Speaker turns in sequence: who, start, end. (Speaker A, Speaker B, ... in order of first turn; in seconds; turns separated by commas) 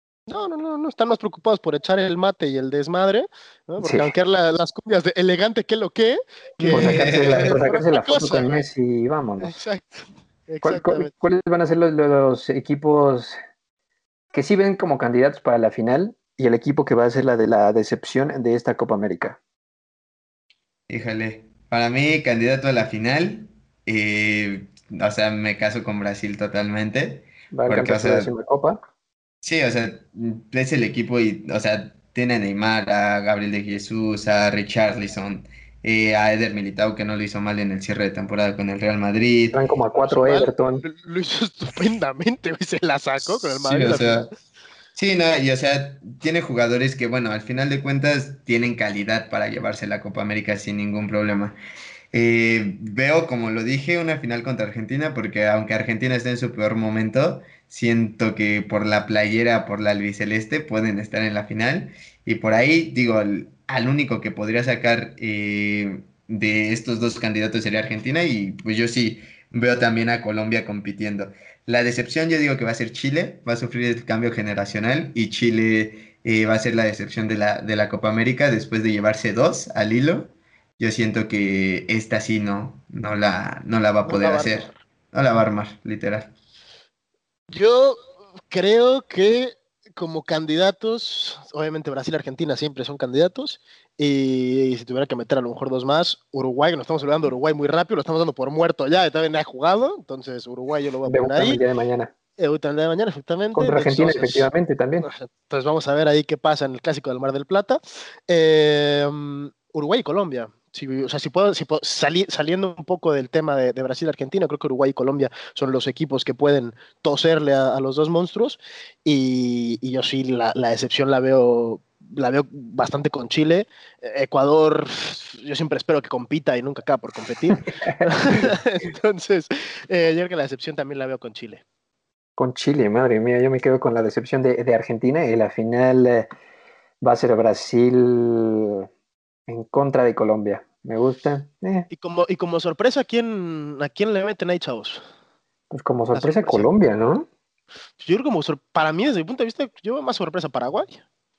Speaker A: 0.3-8.6, Speaker B: 3.8-4.1, Speaker C: 6.6-7.5, Speaker B: 6.7-9.5, Speaker A: 9.4-11.1, Speaker B: 10.6-13.4, Speaker B: 14.3-19.4, Speaker C: 20.9-28.3, Speaker B: 27.5-28.8, Speaker C: 29.4-39.6, Speaker B: 39.5-40.8, Speaker A: 39.9-44.3, Speaker C: 43.2-44.3, Speaker C: 44.9-51.6, Speaker C: 52.1-86.3, Speaker A: 84.0-84.8, Speaker A: 87.5-101.6, Speaker B: 101.0-102.1, Speaker A: 102.4-104.5, Speaker B: 103.5-105.1, Speaker A: 105.0-131.6, Speaker B: 127.5-128.5, Speaker B: 132.4-136.3, Speaker B: 137.0-138.9, Speaker B: 139.5-141.9, Speaker A: 141.9-145.0, Speaker B: 145.7-147.3, Speaker A: 146.1-146.7, Speaker A: 148.0-151.0